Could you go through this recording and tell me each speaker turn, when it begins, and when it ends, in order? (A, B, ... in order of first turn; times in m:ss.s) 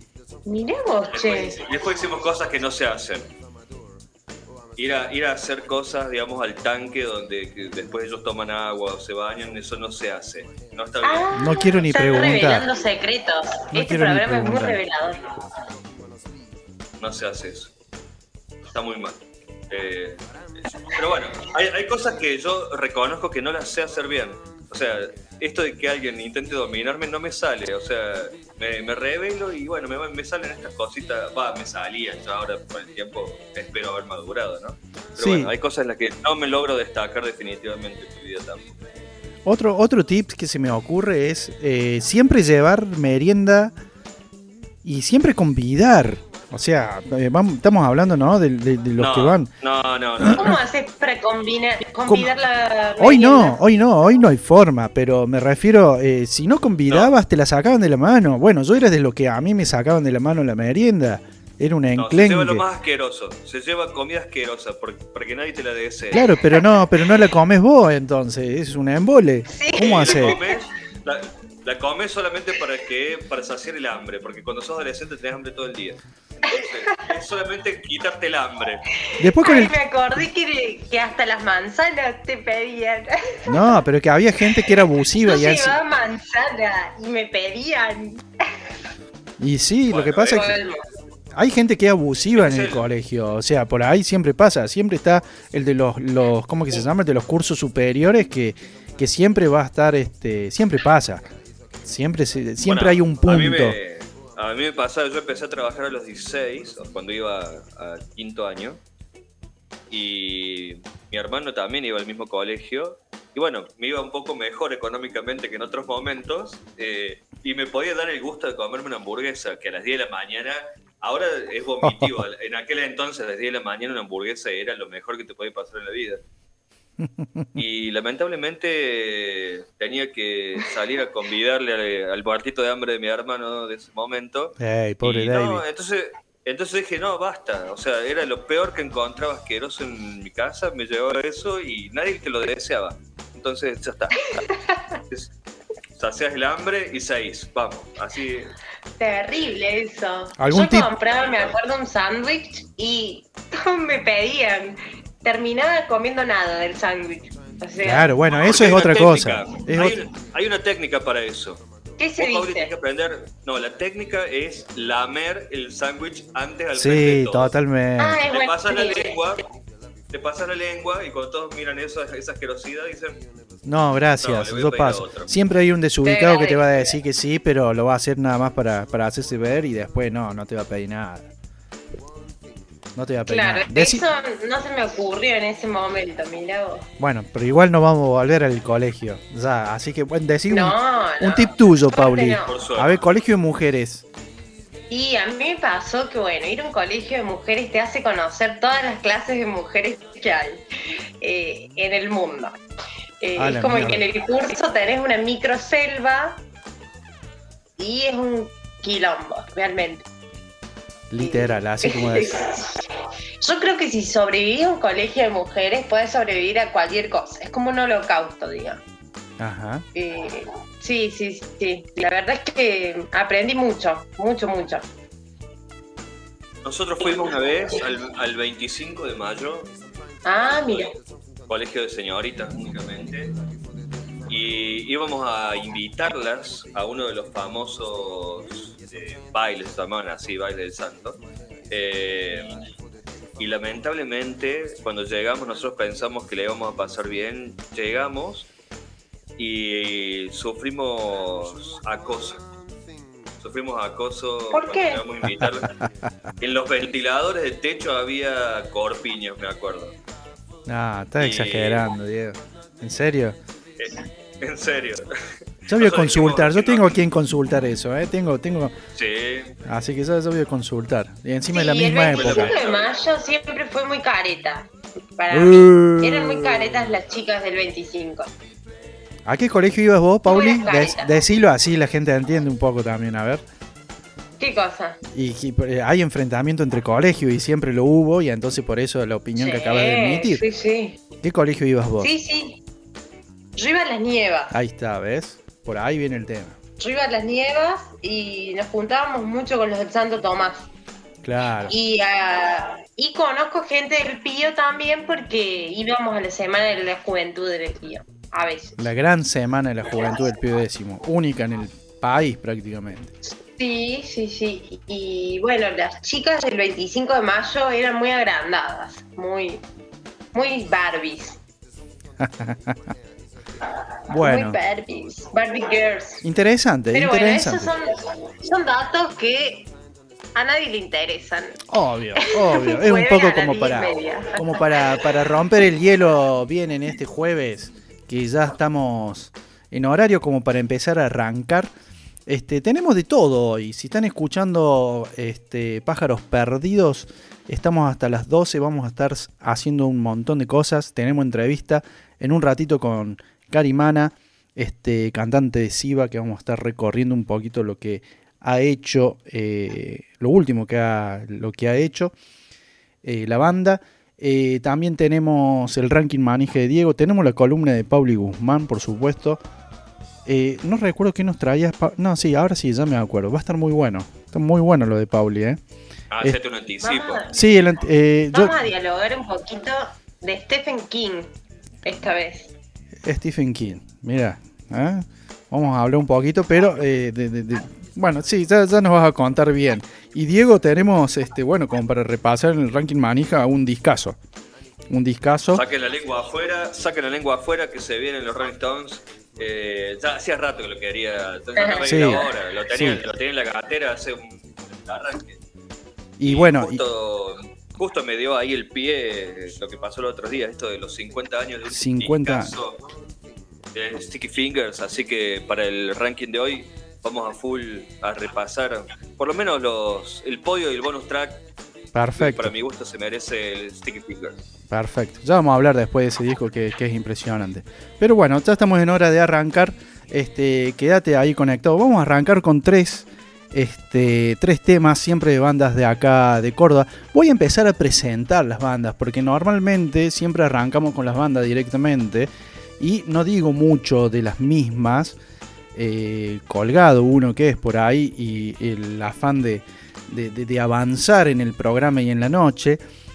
0:00.4-0:01.6 A
0:01.1-0:03.3 B
0:04.8-0:11.7 B
0:11.0-0:15.2 A
0:11.3-0:12.6 C
0:13.7-0:14.8 C
0:17.0-0:17.7 B
0:18.7-0:19.2 B
0:19.7-0:38.8 B
0:35.2-0:35.5 C
0:39.4-0:43.8 C
0:44.8-0:49.5 C
0:49.0-0:50.5 B
0:50.3-0:53.6 A
0:53.0-1:02.6 C
1:02.0-1:06.3 B
1:06.1-1:10.4 C
1:09.5-1:10.5 A
1:09.8-1:18.8 B
1:19.1-1:23.7 A
1:19.2-1:19.8 C
1:23.5-1:25.8 C
1:25.2-1:28.2 A
1:29.4-1:30.5 C
1:29.9-1:30.5 B
1:30.2-1:30.8 A
1:31.3-1:41.3 C
1:32.4-1:32.9 B
1:41.8-1:43.8 C
1:42.6-1:48.8 B
1:49.9-2:06.2 B
2:01.8-2:02.1 C
2:07.0-2:07.6 C
2:07.6-2:24.5 B
2:14.6-2:15.6 C
2:24.5-2:24.8 A
2:26.0-2:28.5 B
2:29.0-2:38.1 A
2:30.4-2:30.9 C
2:37.8-2:40.0 C
2:38.3-2:41.6 B
2:42.0-2:42.7 A
2:42.2-2:47.5 B
2:46.7-2:48.2 C
2:48.0-2:49.2 A
2:48.3-2:49.4 B
2:50.1-2:53.2 B
2:53.6-3:01.3 C
2:54.2-2:55.3 B
2:56.0-2:56.9 A
3:02.9-3:04.0 C
3:03.2-3:06.8 A
3:07.0-3:14.0 C
3:10.5-3:12.5 A
3:12.5-3:13.1 B
3:14.9-3:20.6 A
3:21.2-3:22.6 A
3:23.2-3:26.4 A
3:23.4-3:24.0 C
3:27.8-3:30.0 A
3:31.1-3:32.4 C
3:31.2-3:32.9 A
3:33.4-3:38.8 A
3:39.4-3:39.8 C
3:39.9-3:44.8 A
3:46.6-3:49.7 B
3:50.2-3:50.9 A
3:50.5-3:50.9 B
3:51.5-3:53.4 B
3:54.3-4:02.6 B
4:03.4-4:08.5 B
4:09.4-4:12.4 B
4:13.4-4:15.7 B
4:14.5-4:15.0 A
4:15.4-4:15.6 C
4:16.4-4:19.9 B
4:20.7-4:23.4 C
4:21.2-4:21.9 B
4:23.8-4:27.0 B
4:25.7-4:28.8 C
4:28.9-4:29.5 B
4:29.6-4:32.6 C
4:31.5-4:38.3 A
4:32.1-4:32.9 B
4:35.3-4:36.8 C
4:39.2-4:43.4 C
4:40.2-4:41.1 A
4:44.4-4:45.0 A
4:45.1-4:50.4 C
4:49.4-4:51.0 A
4:51.2-4:52.1 C
4:52.0-4:52.6 A
4:53.6-4:54.5 A
4:54.5-4:56.6 C
4:56.8-5:00.7 A
5:01.2-5:01.7 C
5:01.7-5:08.9 A
5:08.8-5:13.1 C
5:13.4-5:19.6 A
5:20.3-5:21.4 A
5:22.2-5:22.9 C
5:24.1-5:26.2 A
5:24.1-5:24.6 C
5:26.2-5:27.7 C
5:26.9-5:29.7 A
5:30.3-5:31.6 A
5:31.7-5:41.7 C
5:32.2-5:35.1 A
5:42.3-6:02.1 C
6:03.0-6:09.4 C
6:10.2-6:15.6 C
6:16.1-6:17.2 B
6:16.8-6:17.3 A
6:17.3-6:18.6 C
6:18.3-6:21.3 A
6:21.8-6:22.5 A
6:23.0-6:34.2 C
6:34.9-6:35.6 C
6:35.5-6:45.4 B
6:41.6-6:42.2 A
6:41.8-6:43.0 C
6:46.2-6:46.8 C
6:46.2-6:52.8 B
6:51.7-6:52.6 C
6:53.7-7:01.4 B
7:01.9-7:02.5 C
7:02.2-7:04.4 B
7:04.7-7:25.2 C
7:25.7-7:32.8 C